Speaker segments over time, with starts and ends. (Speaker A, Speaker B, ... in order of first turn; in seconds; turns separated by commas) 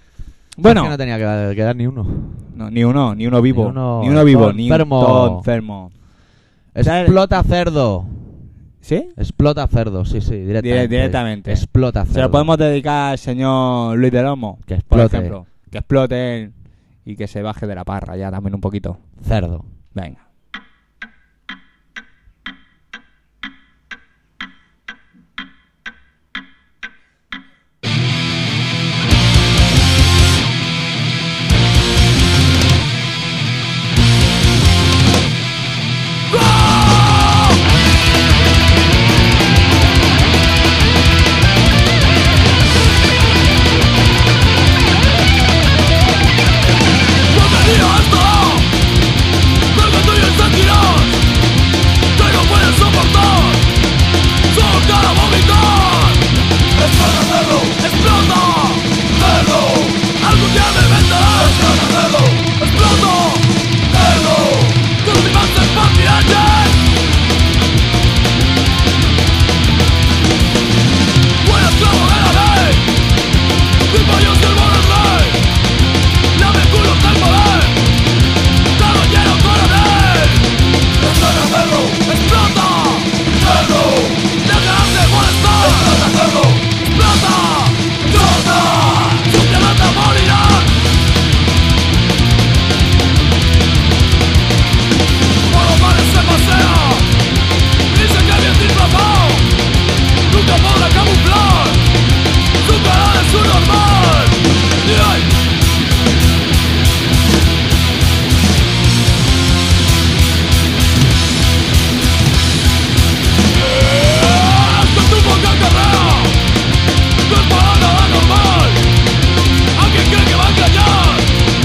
Speaker A: 0.6-0.9, Speaker B: 0.6-2.4, Speaker A: 2.5-5.9, Speaker B: 3.5-5.4, Speaker B: 6.7-8.3, Speaker A: 6.8-7.2, Speaker A: 8.8-9.1, Speaker B: 9.2-12.5, Speaker A: 10.6-16.5, Speaker B: 14.7-15.3, Speaker A: 17.0-19.0, Speaker B: 19.2-19.6, Speaker A: 19.9-20.2, Speaker C: 47.3-48.7, Speaker C: 49.7-51.2, Speaker C: 52.1-53.6, Speaker C: 54.5-56.2, Speaker C: 56.8-66.8, Speaker C: 71.4-72.9, Speaker C: 73.9-75.5, Speaker C: 76.3-77.8, Speaker C: 78.7-90.7, Speaker C: 95.5-97.1, Speaker C: 97.9-99.5, Speaker C: 100.3-101.8, Speaker C: 102.6-105.4, Speaker C: 113.6-116.3, Speaker C: 117.2-118.9, Speaker C: 119.7-121.3